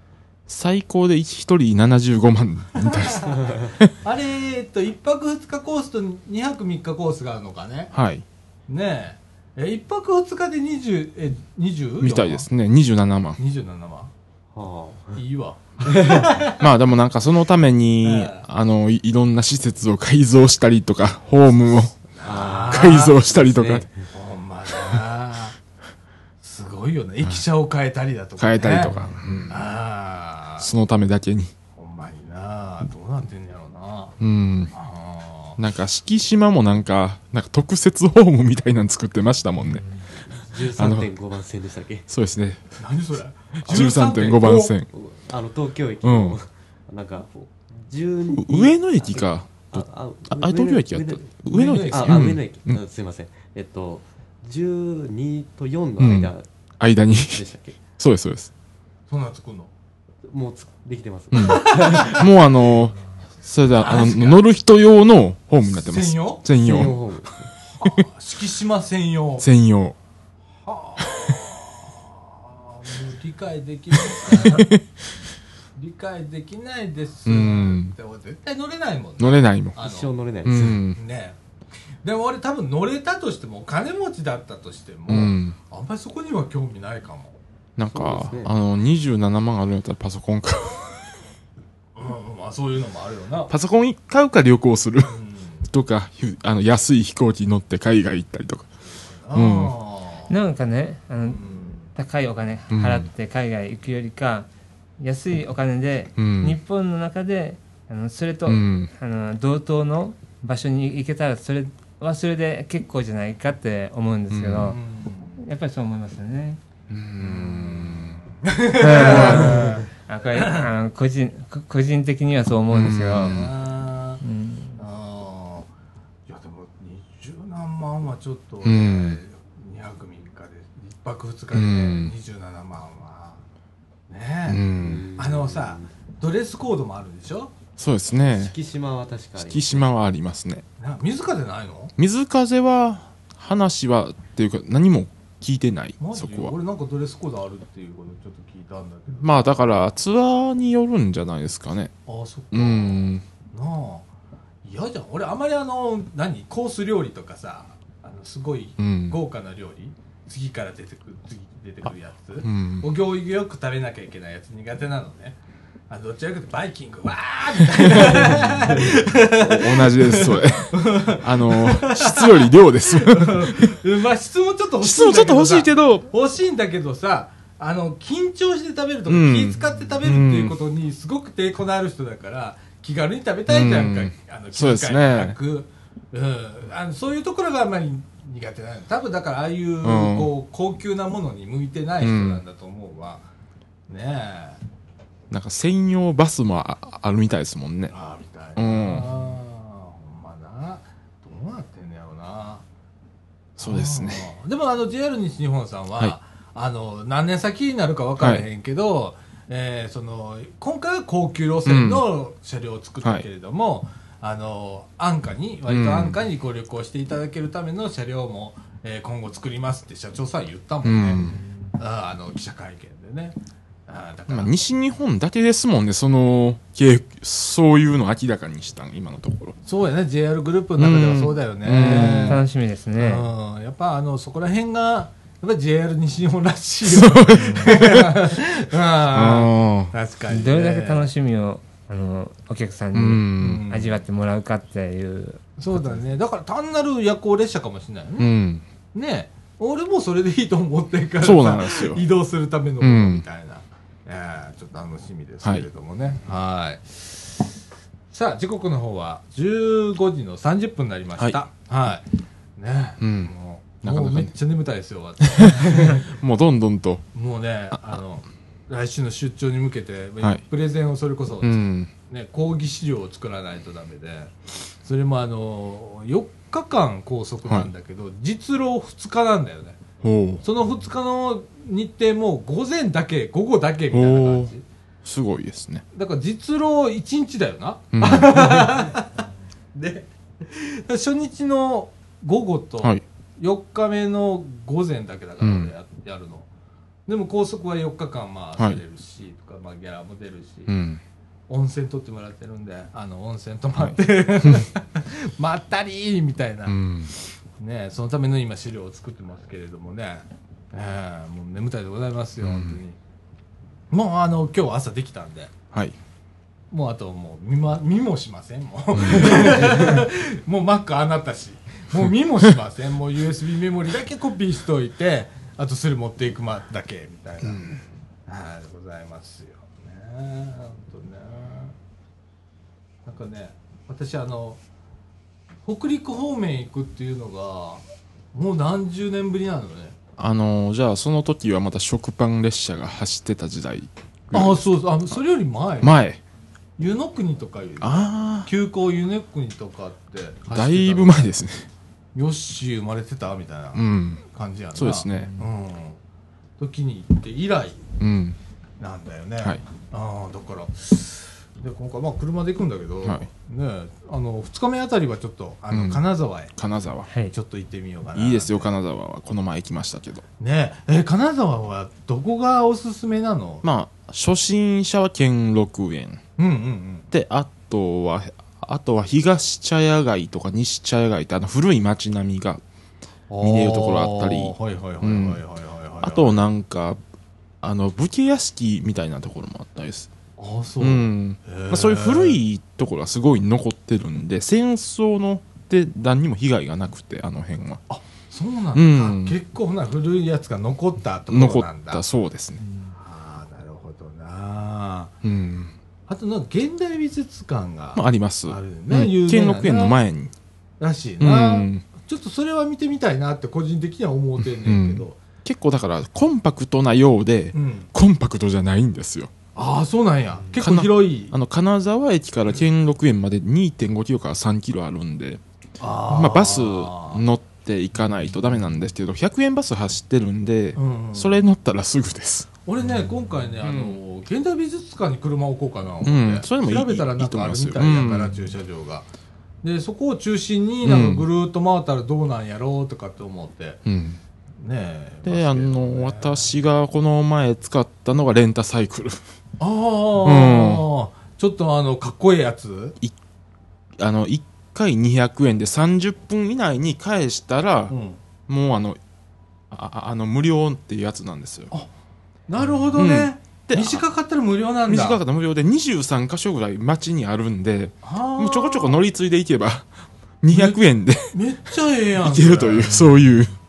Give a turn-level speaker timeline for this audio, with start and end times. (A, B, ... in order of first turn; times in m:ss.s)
0:00.5-0:03.9 A
0:02.8-0:07.9 B
0:07.9-0:08.2 A
0:08.7-0:12.5 B
0:12.0-0:13.4 A
0:13.4-0:14.1 B
0:14.5-0:15.2 C
0:15.2-0:16.6 B
0:15.9-0:16.3 C
0:16.6-0:21.9 A
0:18.0-0:18.4 B
0:22.1-0:23.2 B
0:22.2-0:24.0 C
0:22.6-0:23.8 A
0:24.1-0:25.6 B
0:26.4-0:28.9 B
0:28.4-0:29.6 A
0:28.8-0:29.4 C
0:29.5-0:30.7 B
0:30.6-0:31.5 A
0:31.8-0:34.2 B
0:34.2-0:34.7 A
0:34.7-0:35.6 B
0:35.6-0:39.9 A
0:40.4-0:42.0 C
0:40.8-0:41.1 A
0:42.1-0:42.7 A
0:42.8-0:44.7 B
0:43.6-0:44.9 A
0:44.9-0:56.4 C
0:46.0-0:46.4 A
0:48.3-0:52.8 A
0:51.5-0:52.3 B
0:56.0-0:57.4 A
0:57.1-0:57.8 C
0:58.0-0:58.5 A
0:59.1-0:59.7 B
1:00.3-1:02.2 C
1:01.3-1:07.1 A
1:01.7-1:02.2 B
1:03.7-1:04.4 B
1:05.6-1:06.4 B
1:06.6-1:07.5 C
1:07.8-1:09.5 B
1:09.4-1:10.0 A
1:10.6-1:14.7 B
1:14.2-1:14.8 A
1:15.8-1:20.1 B
1:17.2-1:17.9 A
1:19.2-1:19.8 A
1:19.8-1:20.8 C
1:20.4-1:21.0 A
1:20.9-1:21.4 B
1:22.0-1:27.4 B
1:25.1-1:25.6 A
1:27.8-1:31.1 A
1:27.9-1:28.5 C
1:31.9-1:33.5 B
1:33.5-1:38.7 A
1:35.1-1:35.6 B
1:39.3-1:40.3 B
1:39.3-1:39.7 A
1:40.3-1:44.5 D
1:41.2-1:41.9 B
1:42.7-1:43.1 A
1:45.0-1:54.8 D
1:46.2-1:46.6 A
1:48.4-1:48.9 A
1:54.3-1:54.8 A
1:54.6-1:55.4 B
1:55.4-1:56.6 D
1:56.9-1:58.2 A
1:57.2-2:00.7 B
1:58.8-2:03.5 D
1:58.9-1:59.7 A
2:02.7-2:03.5 A
2:03.2-2:04.2 B
2:04.2-2:04.8 D
2:04.8-2:05.7 B
2:06.3-2:13.4 B
2:08.6-2:09.2 A
2:11.5-2:12.1 A
2:14.1-2:14.6 B
2:14.5-2:15.1 A
2:14.8-2:15.9 C
2:15.1-2:17.5 B
2:17.8-2:18.5 A
2:18.2-2:19.9 C
2:19.4-2:20.6 A
2:20.8-2:21.9 B
2:22.0-2:26.5 A
2:26.0-2:29.6 B
2:29.2-2:31.9 A
2:32.1-2:34.1 B
2:32.5-2:33.2 A
2:34.6-2:45.4 B
2:38.8-2:39.2 A
2:42.4-2:42.9 A
2:45.9-3:13.2 B
2:47.7-2:53.8 A
2:54.8-2:56.1 A
2:59.1-3:00.6 A
3:03.5-3:05.4 A
3:09.8-3:10.3 A
3:12.0-3:12.4 A
3:13.9-3:14.6 B
3:15.3-3:17.9 A
3:17.9-3:22.6 B
3:18.6-3:19.1 A
3:23.6-3:24.3 A
3:23.6-3:41.2 B
3:28.2-3:28.4 A
3:31.6-3:32.0 A
3:35.7-3:36.2 A
3:40.8-3:41.4 A
3:41.8-3:44.5 B
3:44.3-3:49.6 A
3:49.6-3:52.4 B
3:50.8-3:52.4 A
3:51.8-3:53.3 D
3:53.0-4:01.1 B
3:56.8-3:58.2 A
3:59.1-3:59.9 A
4:00.3-4:05.5 D
4:02.9-4:03.7 A
4:03.4-4:03.9 B
4:05.6-4:08.3 B
4:08.2-4:08.6 A
4:08.9-4:17.4 B
4:11.2-4:12.0 A
4:12.8-4:13.2 A
4:18.1-4:22.0 B
4:22.6-4:26.1 B
4:23.0-4:24.3 A
4:25.3-4:27.0 A
4:27.1-4:39.8 B
4:31.4-4:31.9 A
4:40.0-4:40.4 A
4:40.4-4:44.6 B
4:43.9-4:44.5 A
4:45.0-4:45.8 A
4:45.9-4:49.2 B
4:47.9-4:48.7 A
4:49.7-4:56.5 B
4:55.4-4:55.7 A
4:57.1-5:00.7 B
5:00.7-5:01.0 A
5:01.5-5:06.8 B
5:03.8-5:04.6 A
5:06.7-5:07.1 A
5:07.6-5:13.0 B
5:12.4-5:12.8 A
5:13.9-5:15.5 B
5:16.7-5:31.7 B
5:19.0-5:19.5 A
5:27.4-5:27.8 A
5:33.0-5:34.6 B
5:35.6-5:37.8 B
5:38.3-5:40.0 B
5:40.2-5:44.6 A
5:44.3-5:46.0 B
5:45.8-5:46.2 A
5:46.8-5:51.3 B
5:47.8-5:48.5 A
5:50.5-5:51.7 A
5:52.1-5:56.0 B
5:53.7-5:54.2 A
5:54.7-5:55.3 A
5:56.6-5:57.8 B
5:58.0-5:58.4 A
5:58.8-6:06.5 B
6:05.7-6:06.0 A
6:06.5-6:07.1 A
6:07.1-6:07.3 D
6:07.3-6:08.7 B
6:08.1-6:10.2 A
6:10.4-6:13.6 B
6:13.6-6:16.2 A
6:16.4-6:17.1 B
6:17.1-6:22.6 A
6:23.3-6:26.4 B
6:23.4-6:25.4 A
6:26.0-6:27.0 A
6:27.6-6:30.1 A
6:30.4-6:32.4 B
6:30.8-6:37.8 A
6:37.9-6:42.0 B
6:38.7-6:39.4 A
6:41.3-6:42.7 A
6:43.0-6:45.1 B
6:45.2-6:45.7 A
6:46.1-6:50.0 B
6:47.9-6:50.3 A
6:50.8-6:55.2 B
6:51.2-6:51.8 A
6:54.4-6:59.3 A
6:57.5-6:57.9 B
6:59.5-7:01.3 B
7:00.6-7:05.4 A
7:05.8-7:07.2 B
7:06.1-7:12.5 A
7:10.7-7:11.4 B
7:12.6-7:19.1 B
7:13.6-7:14.0 A
7:16.0-7:18.3 A
7:19.6-7:23.8 B
7:20.8-7:21.2 A
7:23.8-7:24.2 A
7:24.6-7:26.5 B
7:25.2-7:29.2 A
7:29.6-7:33.0 B
7:30.2-7:30.8 A
7:34.0-7:37.9 A
7:37.9-7:38.2 B
7:38.5-7:39.0 A
7:39.7-7:41.7 A
7:42.5-7:45.2 B
7:42.9-7:44.0 A
7:44.9-7:49.9 A
7:48.0-7:49.0 B
7:50.4-7:51.3 A
7:50.5-7:53.1 B
7:52.2-7:53.5 A